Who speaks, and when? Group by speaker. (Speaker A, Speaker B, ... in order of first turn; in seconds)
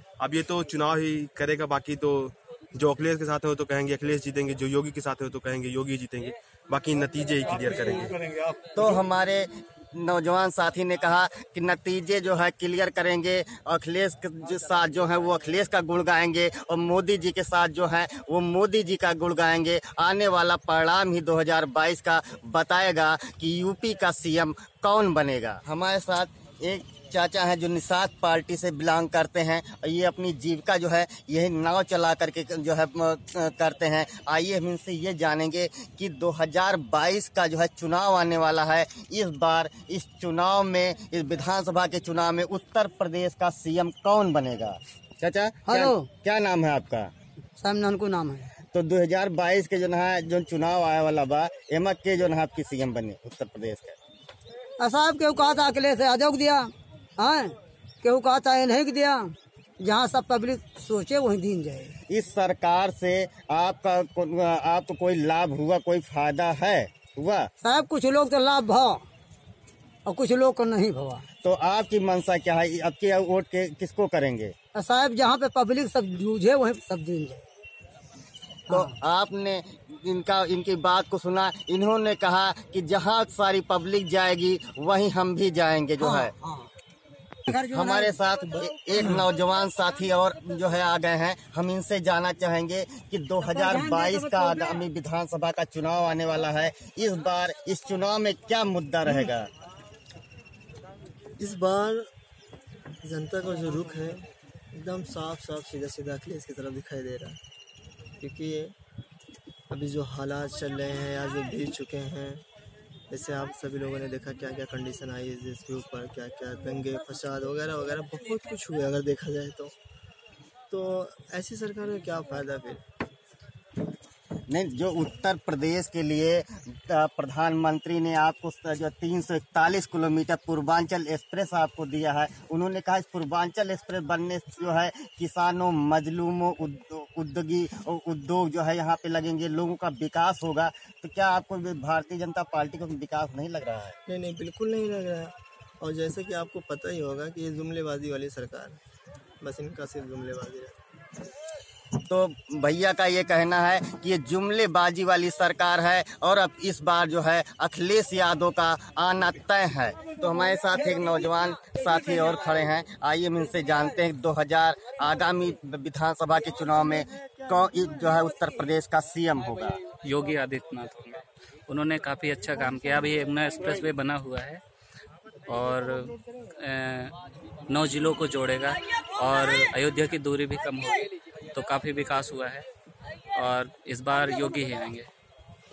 Speaker A: 0.2-8.1
Speaker B: 8.7-47.1, 48.7-54.0, 62.1-67.5, 71.4-74.5, 78.7-86.3, 87.7-99.5, 124.5-144.0, 152.0-169.8
Speaker C: 45.6-46.1, 47.6-48.5, 54.8-61.9, 67.6-69.0, 70.0-71.2, 74.7-77.4, 78.7-79.0, 86.0-86.7, 87.5-88.2, 93.4-94.8
Speaker D: 101.4-102.1, 103.0-104.2, 104.7-107.4, 108.2-108.7, 109.7-112.4, 113.1-119.7, 120.7-122.8, 144.1-148.8, 149.4-150.8
Speaker E: 170.0-174.6, 175.5-177.1, 177.7-182.6, 183.4-185.1